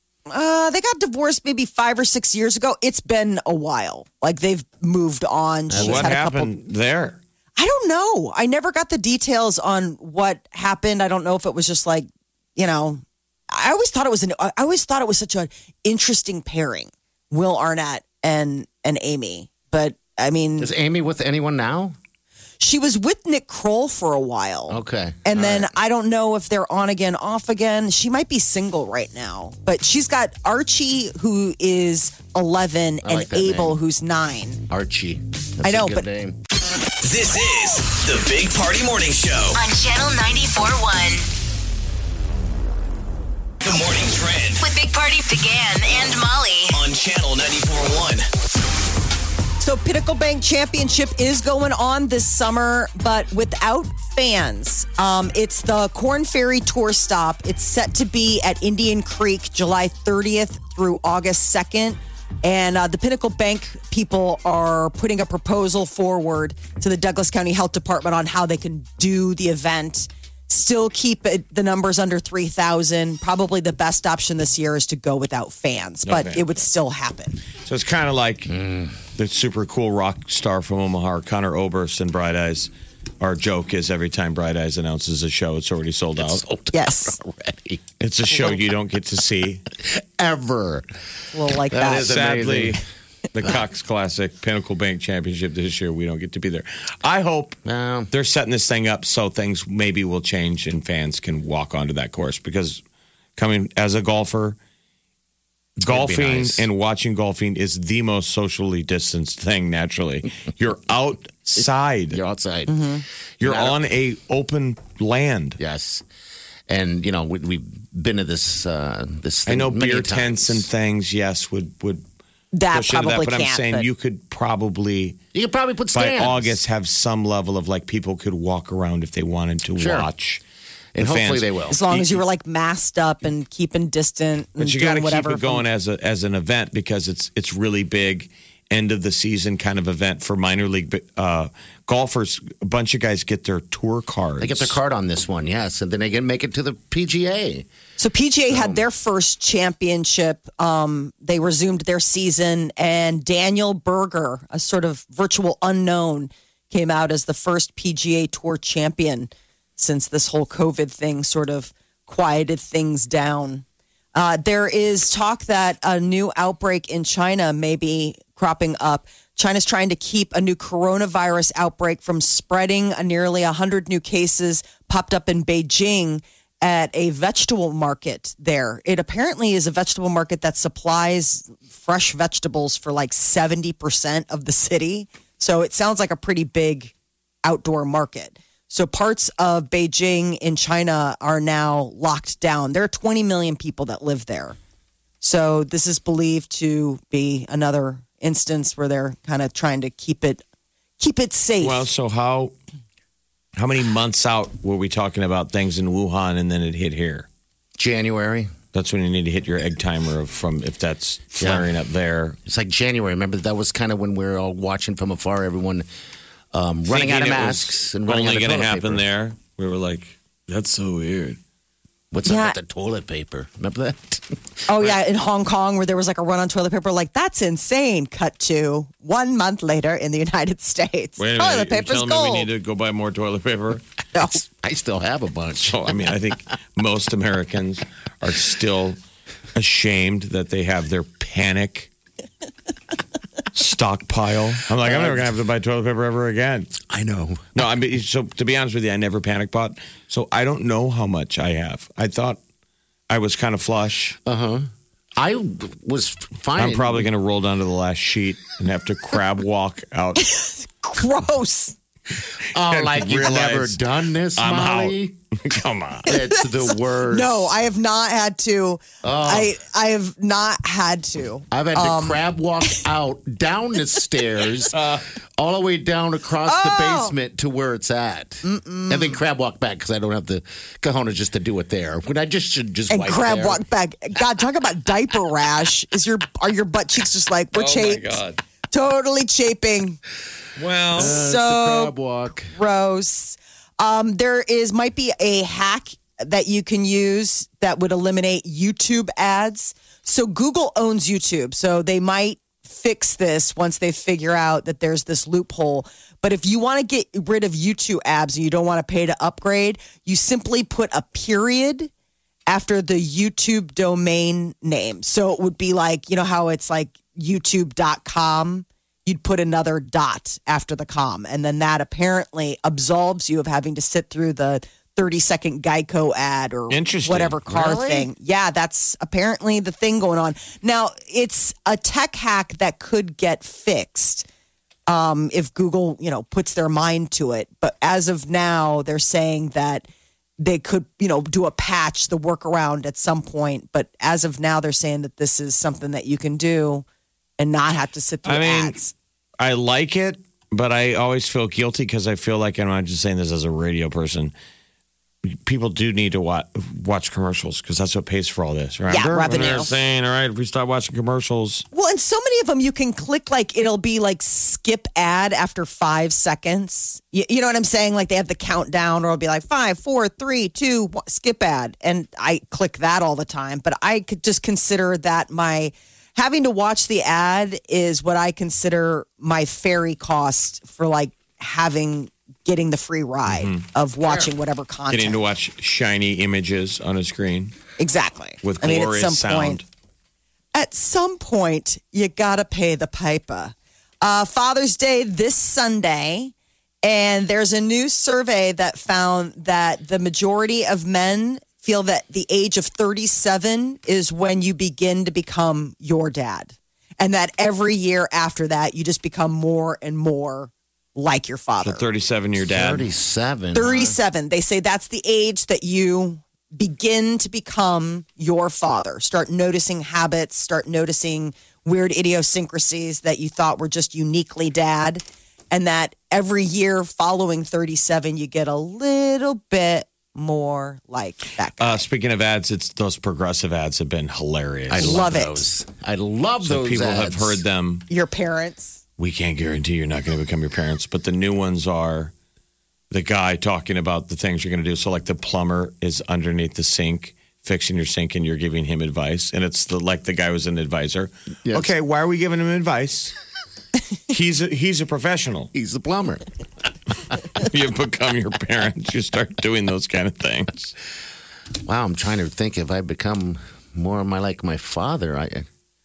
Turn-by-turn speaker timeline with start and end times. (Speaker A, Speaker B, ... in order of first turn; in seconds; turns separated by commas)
Speaker A: 0.3-6.5, Speaker B: 5.7-6.2, Speaker C: 5.8-7.2, Speaker A: 7.6-20.7, Speaker B: 20.6-21.9, Speaker A: 22.6-34.6, Speaker B: 24.7-25.7, Speaker B: 33.0-33.8, Speaker B: 34.7-36.4, Speaker A: 35.6-36.1, Speaker D: 37.0-39.6, Speaker E: 39.5-41.3, Speaker D: 43.6-44.6, Speaker E: 44.6-46.8, Speaker D: 46.7-48.2, Speaker A: 49.6-77.4, Speaker C: 76.0-76.5, Speaker C: 77.6-78.5, Speaker B: 78.5-79.0, Speaker C: 79.1-86.4, Speaker B: 86.2-87.8, Speaker A: 86.7-87.2, Speaker C: 88.0-89.6, Speaker B: 89.8-90.9, Speaker A: 91.3-92.1, Speaker B: 91.7-92.8, Speaker C: 91.9-92.8, Speaker C: 93.3-97.6, Speaker B: 97.6-98.1, Speaker C: 98.1-102.8, Speaker C: 103.4-104.6, Speaker B: 105.8-106.7, Speaker C: 105.8-112.2, Speaker B: 112.1-112.9, Speaker A: 112.7-113.0, Speaker B: 113.4-113.8, Speaker C: 113.4-115.6, Speaker B: 115.6-116.0, Speaker B: 116.7-120.7, Speaker C: 119.5-122.0, Speaker A: 122.5-123.9, Speaker C: 122.7-125.2, Speaker B: 125.3-126.6, Speaker C: 125.9-130.4, Speaker B: 129.8-130.1, Speaker B: 130.9-131.8, Speaker C: 131.0-132.2, Speaker A: 131.7-135.6, Speaker C: 134.6-144.8, Speaker B: 144.4-147.7, Speaker A: 148.0-194.6, Speaker B: 148.5-148.8, Speaker A: 195.2-200.4, Speaker A: 201.0-201.9, Speaker C: 201.6-202.5, Speaker C: 203.6-207.3, Speaker B: 207.8-208.5, Speaker C: 208.7-212.4, Speaker B: 211.4-211.7, Speaker B: 212.4-215.9, Speaker B: 216.5-219.0, Speaker C: 216.9-221.4, Speaker B: 222.1-224.4, Speaker A: 222.2-222.6, Speaker A: 224.7-232.5, Speaker C: 231.2-233.8, Speaker B: 234.3-236.1, Speaker C: 235.6-239.0, Speaker C: 239.5-241.9, Speaker C: 243.5-246.7, Speaker B: 244.8-245.3, Speaker B: 246.8-247.7, Speaker C: 247.5-252.4, Speaker C: 253.1-254.2, Speaker B: 254.2-257.1, Speaker C: 256.6-260.2, Speaker A: 260.2-261.8, Speaker B: 262.5-265.1, Speaker C: 262.6-263.8, Speaker C: 264.4-266.1, Speaker B: 266.0-267.5, Speaker A: 266.1-272.2, Speaker B: 269.0-269.5, Speaker B: 271.5-283.6, Speaker C: 274.7-275.0, Speaker A: 276.4-277.1, Speaker A: 278.4-279.2, Speaker A: 282.9-288.2, Speaker C: 287.5-288.4, Speaker A: 288.7-290.0, Speaker C: 290.6-291.1, Speaker B: 290.9-292.5, Speaker A: 291.0-291.9, Speaker A: 292.5-311.9, Speaker A: 312.5-334.2, Speaker C: 326.7-327.8, Speaker B: 327.5-328.0, Speaker A: 334.9-339.9, Speaker A: 340.4-346.9, Speaker A: 347.4-348.9, Speaker C: 348.2-348.8, Speaker C: 349.4-354.3, Speaker C: 355.4-361.6, Speaker A: 358.9-359.7, Speaker A: 361.7-385.2, Speaker C: 383.2-383.6, Speaker B: 384.0-384.3, Speaker C: 384.9-387.5, Speaker A: 387.8-389.6, Speaker C: 388.4-389.6, Speaker A: 390.5-411.9, Speaker C: 411.6-412.9, Speaker B: 412.4-414.0, Speaker A: 413.5-431.9, Speaker C: 431.6-435.1, Speaker B: 434.7-437.4, Speaker A: 434.8-435.4, Speaker C: 436.4-437.9, Speaker A: 437.9-438.8, Speaker C: 439.0-442.1, Speaker C: 442.9-453.1, Speaker B: 451.4-451.7, Speaker C: 454.1-455.5, Speaker B: 455.5-456.2, Speaker C: 457.4-460.7, Speaker B: 461.6-465.4